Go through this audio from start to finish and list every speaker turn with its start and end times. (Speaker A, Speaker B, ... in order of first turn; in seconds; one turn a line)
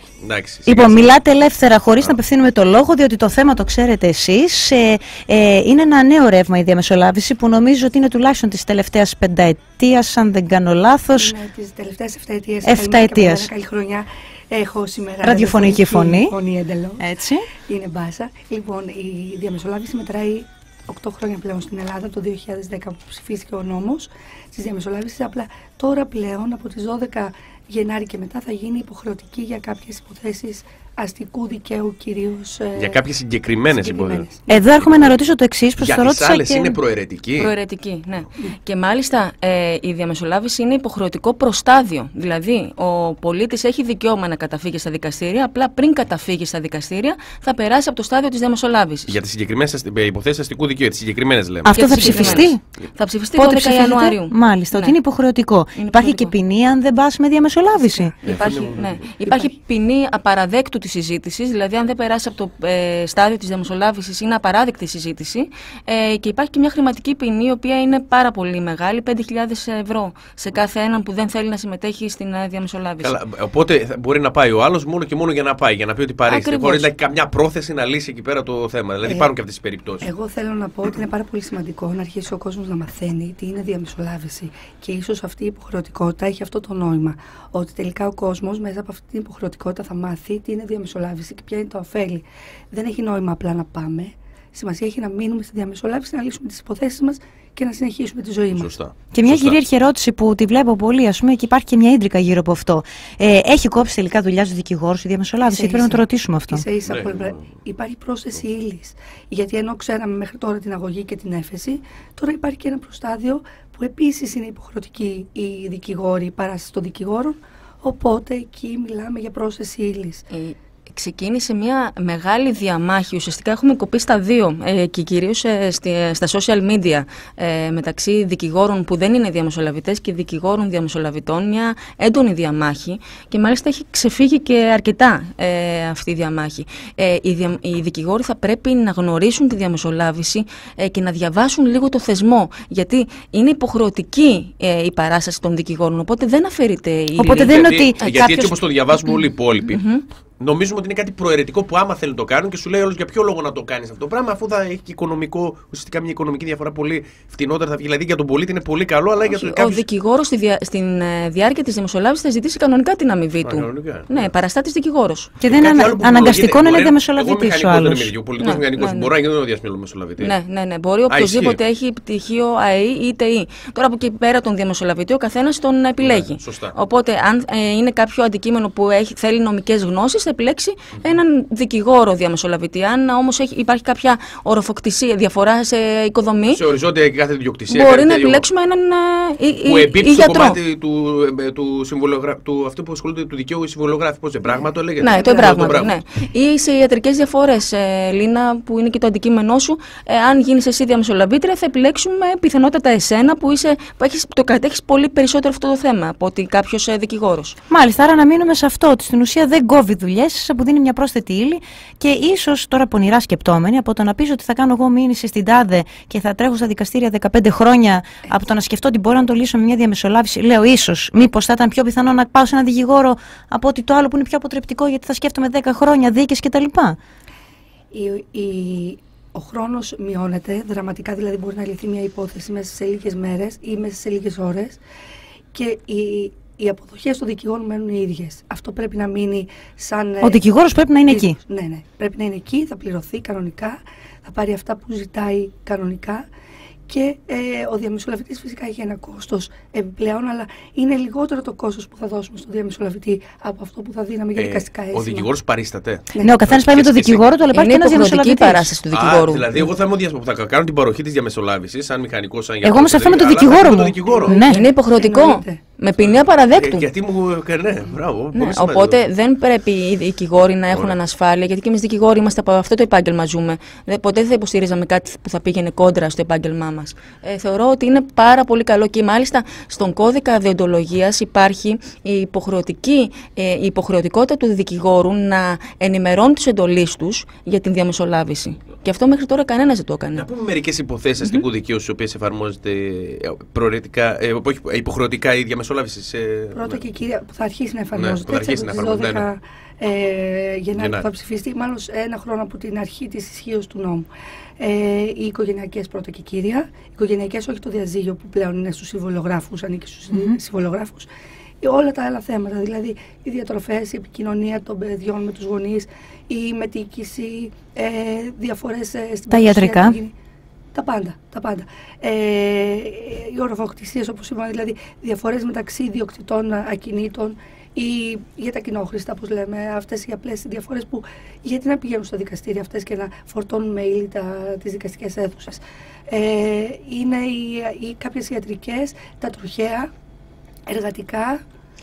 Speaker A: 0.2-1.2
Speaker B: 0.7-11.3
Speaker C: 11.2-17.1
Speaker B: 12.7-13.5
Speaker B: 15.2-16.3
Speaker B: 17.0-17.5
Speaker C: 17.7-33.0
Speaker A: 32.8-34.3
Speaker C: 33.7-34.6
Speaker B: 34.5-36.8
Speaker A: 34.8-35.2
Speaker A: 35.8-37.5
Speaker D: 37.4-49.2
Speaker A: 49.1-52.5
Speaker B: 51.6-52.6
Speaker D: 51.7-55.0
Speaker B: 53.4-58.1
Speaker D: 55.8-56.3
Speaker C: 57.8-59.5
Speaker D: 58.2-73.2
Speaker A: 58.2-59.0
Speaker A: 73.0-80.1
Speaker D: 76.3-76.9
Speaker C: 79.0-79.3
Speaker C: 80.0-98.8
Speaker A: 98.5-99.6
Speaker B: 99.1-106.7
Speaker C: 105.5-120.2
Speaker A: 106.8-107.4
Speaker D: 120.3-150.0
Speaker B: 147.2-148.5
Speaker A: 147.4-149.8
Speaker A: 150.4-159.8
Speaker D: 159.2-165.3
Speaker A: 163.4-164.3
Speaker B: 165.4-168.1
Speaker A: 165.4-170.3
Speaker D: 168.4-169.1
Speaker D: 170.2-186.6
Speaker A: 171.1-171.6
Speaker A: 176.0-176.8
Speaker A: 186.5-188.5
Speaker D: 187.7-190.6
Speaker A: 189.6-195.9
Speaker C: 194.4-195.8
Speaker D: 195.0-207.6
Speaker B: 207.7-227.0
Speaker C: 227.9-234.8
Speaker C: 235.5-240.4
Speaker B: 240.2-241.3
Speaker C: 241.1-246.3
Speaker C: 246.9-255.3
Speaker A: 254.4-257.2
Speaker C: 256.1-256.4
Speaker B: 256.2-258.7
Speaker D: 257.5-259.7
Speaker A: 258.9-264.4
Speaker B: 262.6-264.6
Speaker C: 264.1-265.6
Speaker D: 264.4-266.9
Speaker A: 266.0-269.0
Speaker D: 268.3-290.3
Speaker A: 270.7-271.0
Speaker A: 290.1-296.8
Speaker C: 296.5-304.1
Speaker A: 297.9-299.3
Speaker A: 300.8-301.1
Speaker C: 304.6-311.1
Speaker B: 310.1-310.4
Speaker C: 311.6-320.1
Speaker B: 319.3-320.0
Speaker C: 320.7-339.9
Speaker C: 340.7-341.4